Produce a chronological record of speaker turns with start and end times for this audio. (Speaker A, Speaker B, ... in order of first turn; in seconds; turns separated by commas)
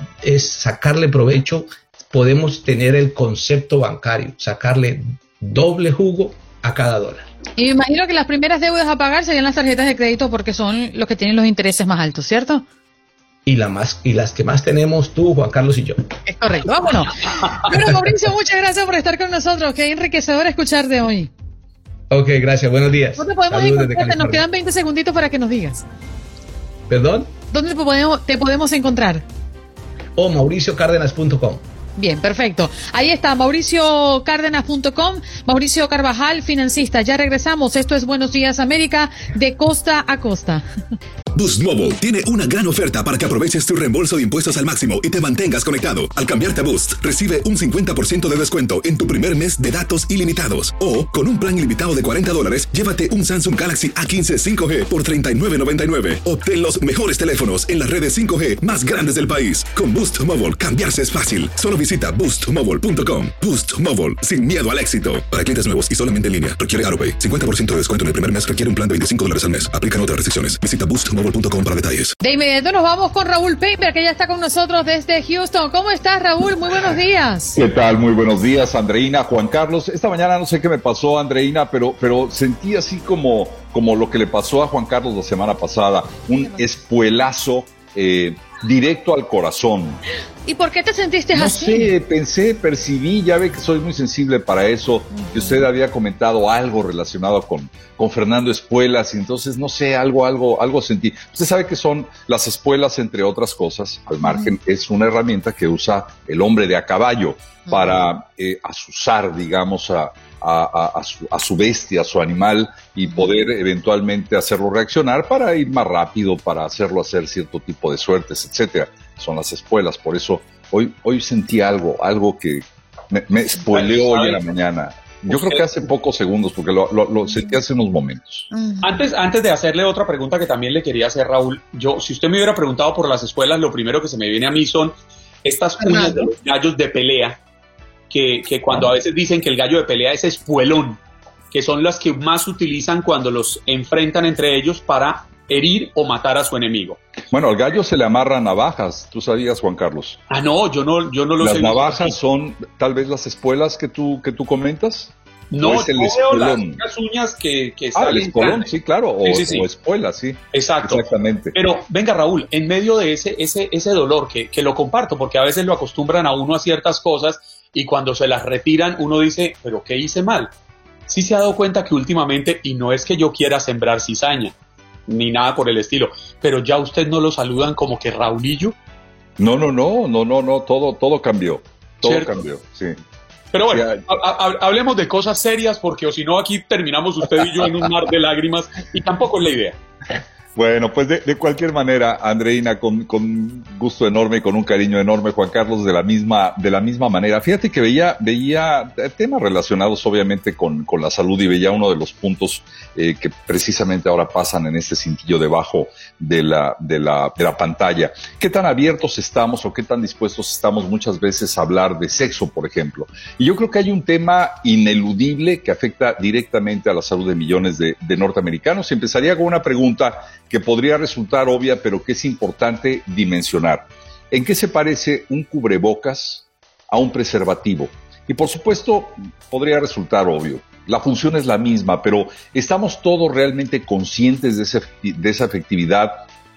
Speaker A: 0.2-7.3, Speaker B: 7.6-12.7, Speaker A: 13.5-16.1, Speaker B: 16.3-21.3, Speaker A: 22.1-24.4, Speaker B: 23.2-25.8, Speaker A: 26.9-27.3, Speaker B: 27.5-29.2, Speaker A: 30.2-31.6, Speaker B: 32.0-40.6, Speaker C: 41.3-72.1, Speaker B: 72.2-77.6, Speaker D: 77.5-90.0, Speaker B: 90.5-91.9, Speaker D: 91.3-128.5, Speaker B: 95.3-95.5, Speaker E: 123.7-124.4, Speaker E: 125.3-125.7, Speaker B: 128.5-128.9, Speaker E: 128.8-134.9, Speaker E: 135.4-137.4, Speaker B: 135.8-136.2, Speaker E: 138.1-141.0, Speaker E: 141.5-147.0, Speaker D: 147.3-150.2, Speaker E: 150.3-152.2, Speaker D: 151.4-156.8, Speaker E: 155.5-159.7, Speaker D: 157.9-161.6, Speaker E: 160.5-170.5, Speaker E: 171.1-174.5, Speaker E: 175.1-178.8, Speaker D: 179.4-183.0, Speaker E: 182.0-182.3, Speaker E: 183.5-189.8, Speaker D: 183.7-184.1, Speaker D: 190.6-236.2